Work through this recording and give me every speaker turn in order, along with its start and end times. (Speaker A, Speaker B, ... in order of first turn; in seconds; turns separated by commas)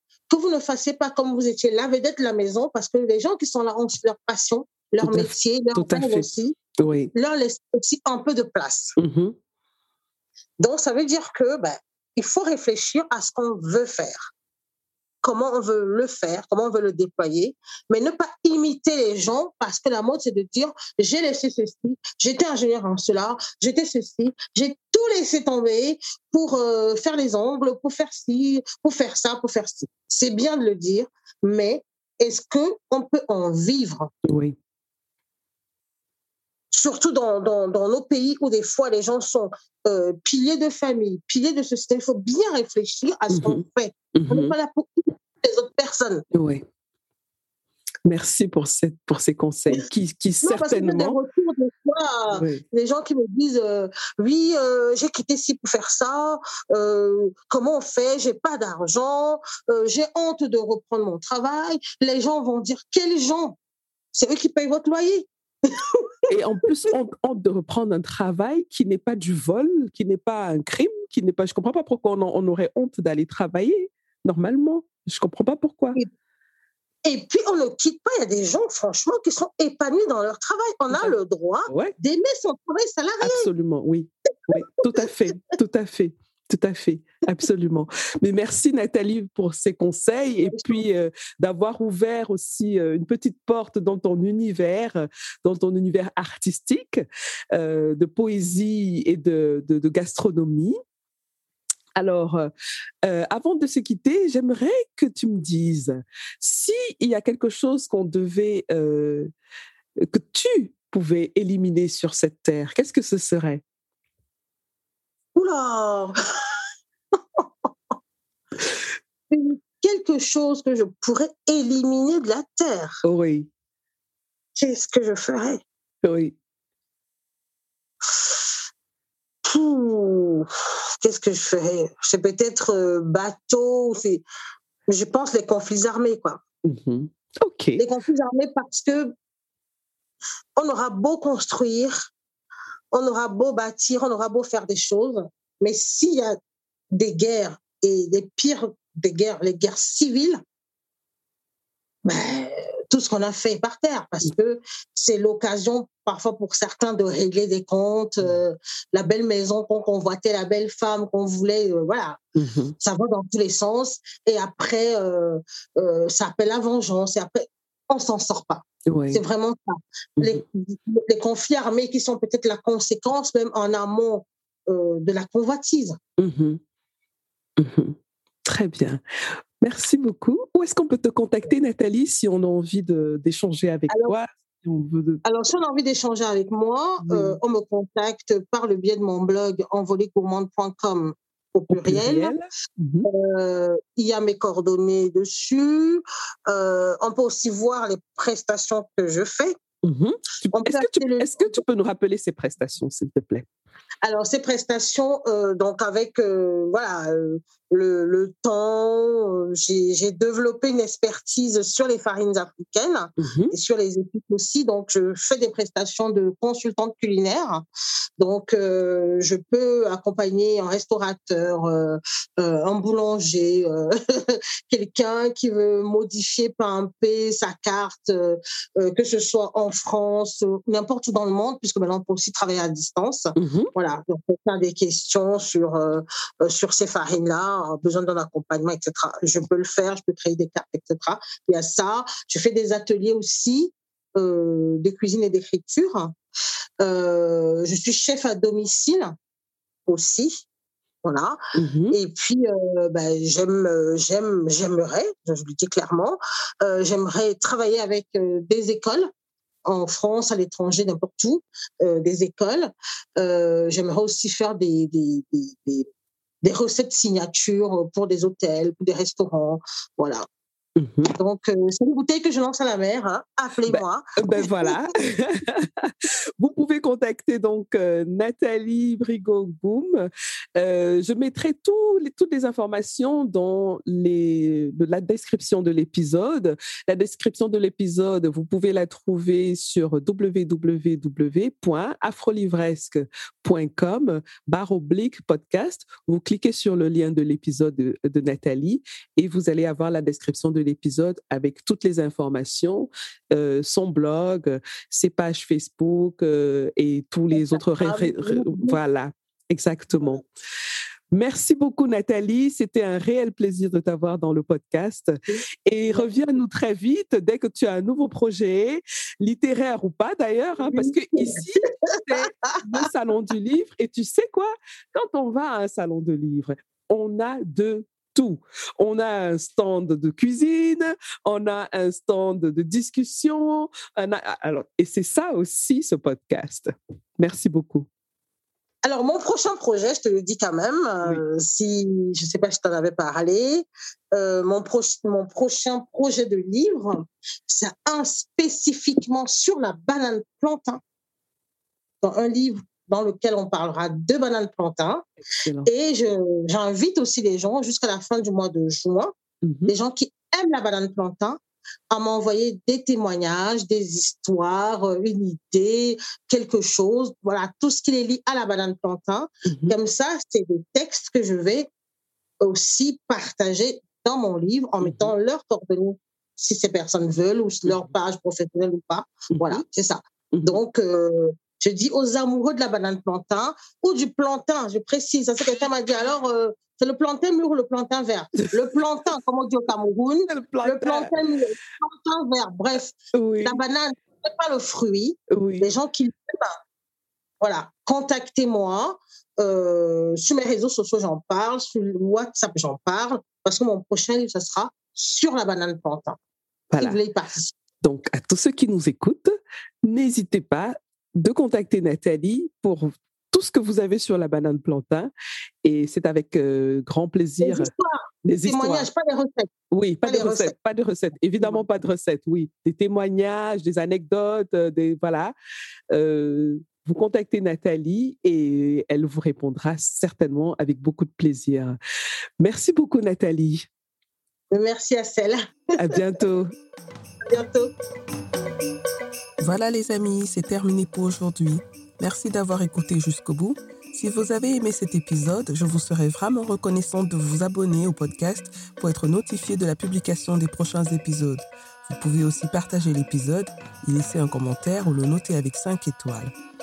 Speaker A: 0.3-6.6, Speaker B: 5.0-7.1, Speaker A: 7.1-8.9, Speaker B: 9.0-9.3, Speaker A: 10.6-14.3, Speaker A: 15.2-34.1, Speaker B: 34.2-34.5, Speaker A: 36.7-46.2, Speaker B: 43.3-43.6, Speaker B: 44.1-44.5, Speaker B: 46.3-46.6, Speaker B: 48.0-51.2, Speaker A: 50.4-63.6, Speaker B: 52.3-52.6, Speaker A: 64.1-66.1, Speaker B: 66.3-76.0, Speaker A: 77.0-83.5, Speaker B: 81.7-81.9, Speaker B: 83.2-100.8, Speaker A: 90.4-90.8, Speaker B: 102.0-102.5, Speaker B: 103.0-109.3, Speaker B: 110.0-113.6, Speaker A: 115.3-116.2, Speaker A: 119.3-123.0, Speaker B: 123.0-123.5, Speaker A: 124.6-125.6, Speaker B: 126.0-126.3, Speaker A: 128.0-128.5, Speaker A: 129.4-130.5, Speaker A: 131.0-134.2, Speaker A: 134.9-136.4, Speaker B: 136.6-137.8, Speaker A: 137.8-139.1, Speaker A: 140.6-142.1, Speaker A: 142.9-146.4, Speaker A: 146.9-150.4, Speaker A: 152.0-162.2, Speaker B: 162.3-162.7, Speaker A: 162.8-176.0, Speaker B: 168.9-169.2, Speaker B: 176.2-176.6, Speaker B: 177.6-179.0, Speaker B: 179.6-185.2, Speaker A: 183.9-184.2, Speaker A: 185.2-192.3, Speaker B: 187.0-187.4, Speaker B: 191.7-193.1, Speaker A: 193.0-199.6, Speaker B: 199.8-203.5, Speaker A: 200.5-201.6, Speaker A: 204.0-217.6, Speaker B: 213.2-213.5, Speaker A: 218.2-246.2, Speaker B: 233.4-233.7, Speaker A: 246.8-249.1, Speaker A: 249.9-250.4, Speaker A: 251.0-251.4, Speaker B: 251.5-252.0, Speaker A: 251.9-259.1, Speaker A: 259.6-265.9, Speaker A: 266.4-270.2, Speaker B: 270.8-271.1, Speaker A: 271.0-274.8, Speaker B: 273.7-310.2, Speaker A: 307.3-308.8, Speaker B: 311.1-337.9, Speaker A: 320.6-322.9, Speaker A: 338.8-350.8, Speaker A: 352.0-355.1, Speaker A: 355.6-359.1, Speaker B: 359.4-359.7, Speaker A: 359.7-361.4, Speaker A: 361.9-371.7, Speaker B: 369.4-369.7, Speaker A: 372.4-396.6, Speaker B: 374.8-375.1, Speaker B: 379.3-379.6, Speaker B: 390.3-391.1, Speaker B: 393.1-393.6, Speaker B: 395.3-395.7, Speaker A: 397.4-406.2, Speaker B: 406.7-407.0, Speaker A: 406.8-407.6, Speaker B: 407.8-409.3, Speaker B: 409.8-415.1, Speaker B: 415.6-417.7, Speaker A: 417.4-419.5, Speaker B: 418.2-418.9, Speaker B: 419.7-425.3, Speaker A: 420.0-420.5, Speaker B: 425.9-431.8, Speaker B: 432.4-433.7, Speaker A: 434.5-435.4, Speaker B: 435.8-436.5, Speaker A: 437.3-437.7, Speaker C: 439.4-456.3